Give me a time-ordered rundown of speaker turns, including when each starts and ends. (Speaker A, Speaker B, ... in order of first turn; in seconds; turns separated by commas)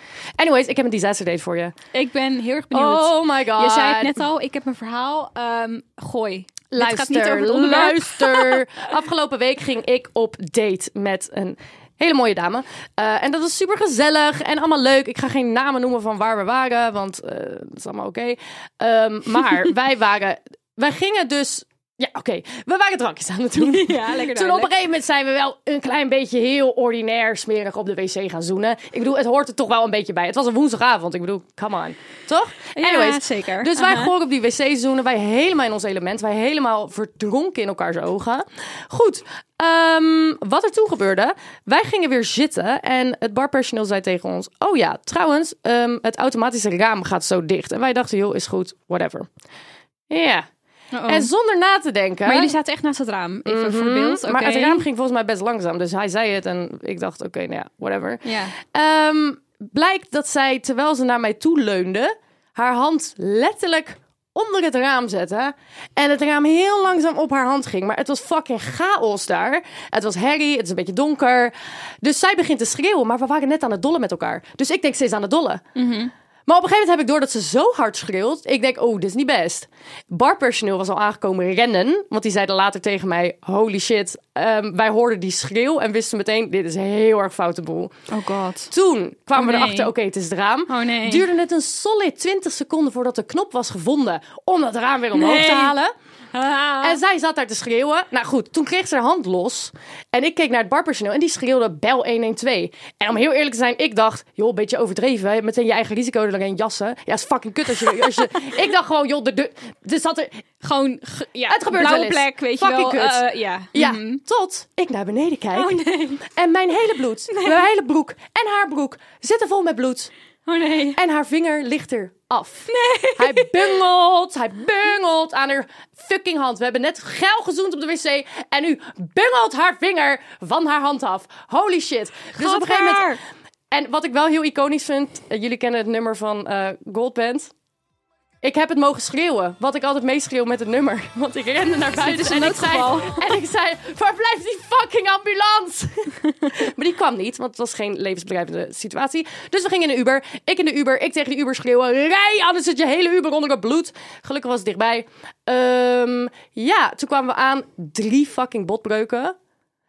Speaker A: 0.4-1.7, Speaker B: 1.9-8.6, Speaker A: 2.7-4.1, Speaker A: 6.7-49.3, Speaker B: 23.6-24.7, Speaker B: 32.7-34.1, Speaker A: 50.1-50.5, Speaker B: 50.9-51.3, Speaker A: 51.1-52.5, Speaker B: 52.2-54.8, Speaker A: 53.5-75.6, Speaker B: 58.2-58.5, Speaker B: 75.7-76.1, Speaker A: 76.5-87.9, Speaker B: 88.1-88.7, Speaker A: 88.7-95.9, Speaker B: 89.3-89.9, Speaker B: 90.7-91.2, Speaker B: 95.1-95.7, Speaker B: 96.3-97.0, Speaker A: 96.8-110.4, Speaker B: 107.8-108.1, Speaker B: 110.6-114.2, Speaker A: 111.5-120.1, Speaker B: 115.5-116.2, Speaker B: 117.3-117.7, Speaker B: 120.5-121.0, Speaker A: 120.9-133.1, Speaker B: 122.7-123.8, Speaker B: 132.3-133.2, Speaker A: 133.7-137.5, Speaker A: 138.4-159.3, Speaker B: 141.9-143.2